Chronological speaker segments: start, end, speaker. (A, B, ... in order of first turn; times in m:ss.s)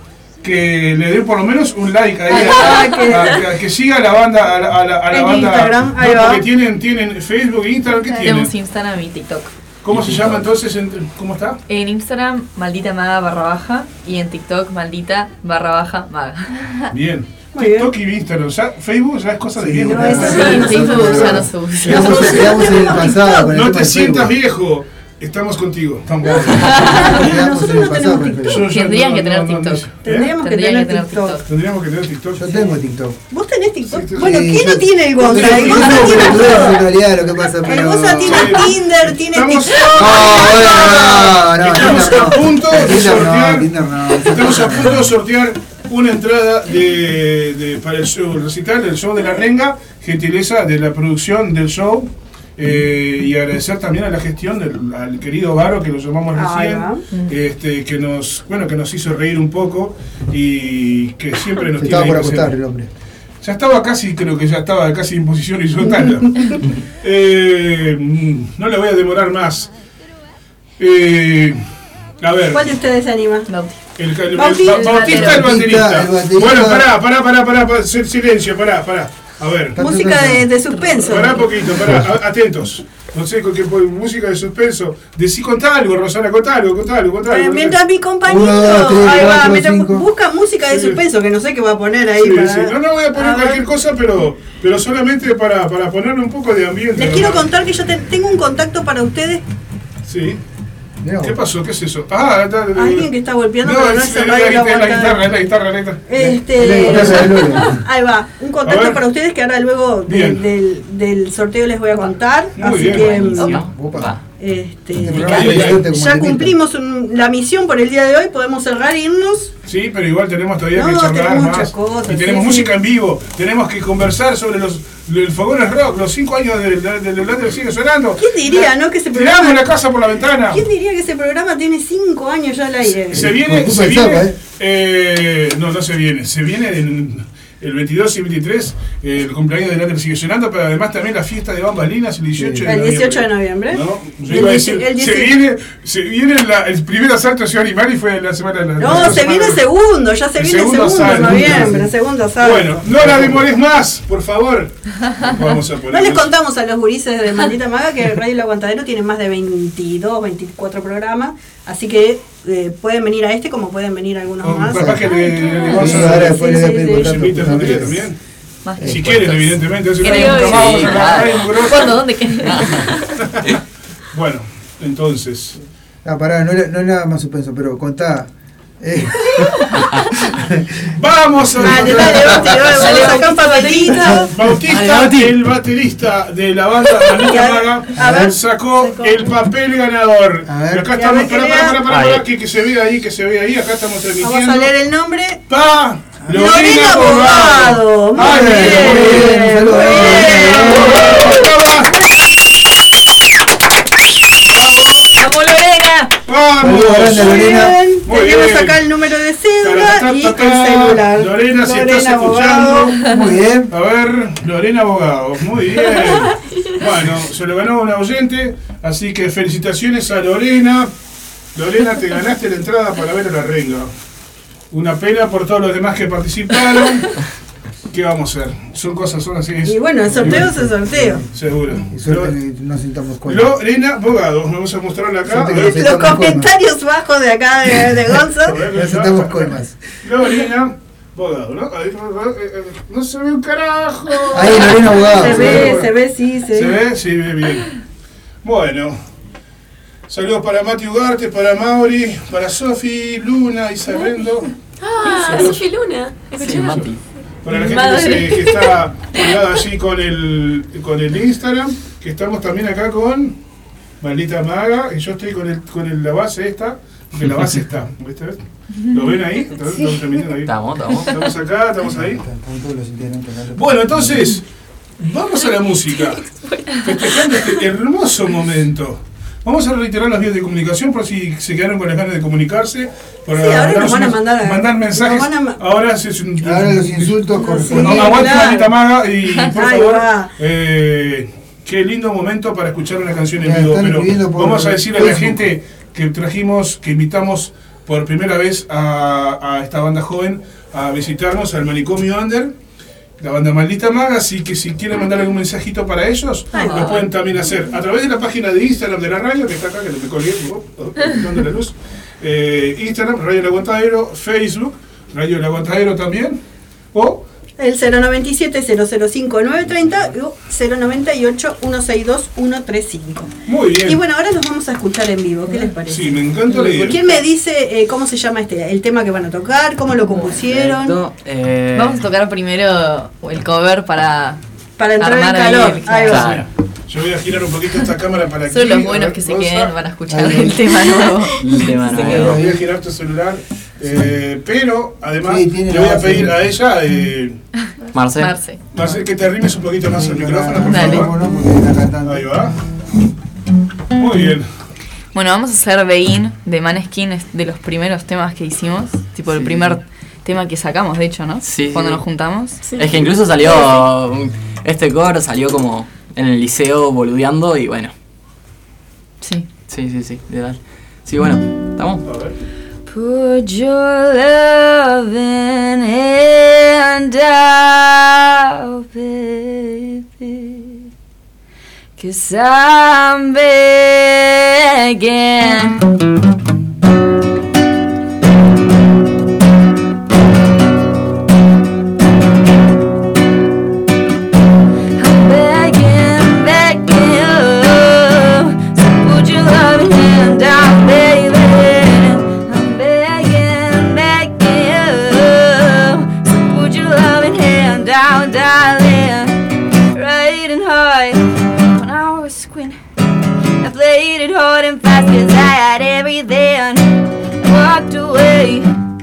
0:00.4-0:08.5 A
0:02.3-0:03.4 B
0:02.3-0:03.2 C
0:05.1-0:06.4 B
0:08.1-0:09.5 C
0:09.8-0:11.6 A
0:11.7-0:16.9 C
0:16.9-0:22.8 A
0:17.6-0:17.9 B
0:19.6-0:24.3 D
0:19.9-0:23.5 B
0:20.0-0:22.6 C
0:23.5-0:27.2 A
0:26.3-0:28.6 B
0:26.4-0:28.6 D
0:28.4-0:30.4 A
0:28.5-0:31.4 C
0:30.0-0:31.4 B
0:31.4-0:32.7 A
0:32.4-0:33.2 D
0:33.3-0:36.8 B
0:33.9-0:34.6 A
0:34.2-0:38.7 D
0:35.2-0:36.7 A
0:37.6-0:42.2 B
0:38.2-1:02.5 A
0:40.0-0:45.1 D
0:56.4-0:57.0 B
1:01.7-1:02.9 D
1:03.4-1:09.7 A
1:05.8-1:06.6 B
1:10.8-1:11.6 A
1:12.2-1:12.7 A
1:12.5-1:13.5 B
1:13.5-1:13.8 C
1:14.0-1:19.8 A
1:14.3-1:15.5 B
1:14.7-1:15.4 C
1:14.8-1:16.9 D
1:19.8-1:20.5 D
1:19.8-1:21.5 B
1:20.7-1:21.1 C
1:21.0-1:27.8 A
1:27.3-1:33.7 B
1:28.3-1:30.1 D
1:30.7-1:31.0 A
1:32.2-1:37.5 A
1:37.0-1:39.4 B
1:40.1-1:40.4 A
1:41.0-1:41.4 D
1:41.2-1:43.1 A
1:42.8-1:45.3 B
1:43.6-1:46.0 A
1:46.1-1:53.8 B
1:46.2-1:47.8 D
1:46.6-1:47.3 A
1:48.6-1:49.0 A
1:50.1-1:50.4 A
1:52.6-1:53.3 A
1:52.8-1:54.2 E
1:53.6-1:54.2 D
1:54.4-1:59.5 B
1:55.0-1:56.6 D
1:55.1-1:55.8 A
1:59.6-2:10.6 A
2:00.7-2:02.8 B
2:08.2-2:09.7 B
2:10.5-2:13.3 B
2:13.1-2:29.6 A
2:13.1-2:14.4 D
2:22.4-2:22.7 D
2:22.6-2:25.4 B
2:28.8-2:33.4 B
2:30.4-2:31.8 A
2:30.9-2:31.9 D
2:32.4-2:36.3 A
2:35.9-2:47.8 B
2:44.4-2:48.2 A
2:44.7-2:45.1 D
2:45.7-2:48.1 D
2:48.6-2:52.8 C
2:48.8-2:49.3 D
2:48.8-2:52.2 A
2:50.0-2:51.7 E
2:50.0-2:50.7 F
2:53.2-2:53.6 A
2:54.1-2:55.6 A
2:56.0-2:59.6 D
3:00.9-3:03.2 A
3:01.6-3:04.3 B
3:01.6-3:02.7 D
3:02.9-3:04.0 C
3:04.3-3:14.7 A
3:04.7-3:05.3 E
3:07.1-3:08.4 B
3:08.0-3:08.4 D
3:10.5-3:10.9 D
3:10.9-3:12.0 B
3:14.2-3:15.4 B
3:15.5-3:21.9 A
3:16.3-3:21.4 B
3:18.2-3:21.2 D
3:24.6-3:25.1 A
3:26.3-3:28.8 A
3:26.6-3:27.8 D
3:27.2-3:33.1 B
3:29.6-3:33.2 A
3:33.1-3:33.7 D
3:33.7-3:40.9 A
3:36.0-3:36.7 F
3:41.6-3:43.9 A
3:44.7-3:47.2 A
3:47.9-3:50.7 A
3:49.6-3:51.2 B
3:50.1-3:51.2 D
3:51.3-3:52.4 A
3:51.9-3:53.5 D
3:53.3-3:56.0 A
3:55.3-3:56.5 D
3:55.6-3:58.6 B
3:58.5-4:05.9 A
3:58.6-3:59.8 D
4:04.3-4:05.8 D
4:05.1-4:06.8 B
4:06.5-4:07.8 A
4:08.4-4:09.0 A
4:10.1-4:14.5 A
4:14.8-4:17.0 F
4:15.1-4:15.6 A
4:16.3-4:17.0 E
4:16.5-4:16.8 A
4:17.4-4:23.4 A
4:17.5-4:18.7 F
4:24.0-4:32.2 A
4:30.4-4:31.1 E
4:32.0-4:34.3 D
4:33.6-4:34.4 A
4:35.0-4:36.2 A
4:36.0-4:37.6 F
4:36.8-5:02.6 A
4:43.3-4:45.6 B
4:46.4-4:48.4 D
4:47.4-4:48.7 B
4:49.5-4:50.3 B
4:53.4-4:55.5 D
5:03.2-5:16.4 A
5:06.5-5:07.1 B
5:16.9-5:17.2 A
5:17.6-5:31.0 B
5:23.5-5:24.0 A
5:25.5-5:25.7 C
5:25.9-5:27.0 A
5:30.1-5:30.4 C
5:30.4-5:32.1 E
5:31.7-5:34.4 C
5:34.8-5:36.4 B
5:35.0-5:36.3 C
5:36.0-5:36.5 E
5:36.2-5:39.7 A
5:38.5-5:42.3 C
5:40.1-5:40.8 D
5:41.4-5:42.5 E
5:42.0-5:47.4 A
5:42.0-5:42.5 D
5:45.2-5:46.4 D
5:47.9-5:48.4 E
5:48.2-5:48.6 C
5:48.7-5:51.2 A
5:48.8-5:49.1 D
5:49.8-5:52.4 D
5:50.7-5:51.1 C
5:52.0-5:52.6 A
5:54.0-5:54.5 A
5:55.1-6:02.6 C
5:59.3-5:59.6 E
6:01.4-6:02.0 E
6:02.7-6:02.9 F
6:02.7-6:07.9 E
6:09.2-6:09.5 C
6:09.7-6:12.1 E
6:12.0-6:12.4 A
6:12.9-6:20.8 G
6:22.0-6:25.8 G
6:35.0-6:52.8 G
6:53.6-6:58.7 G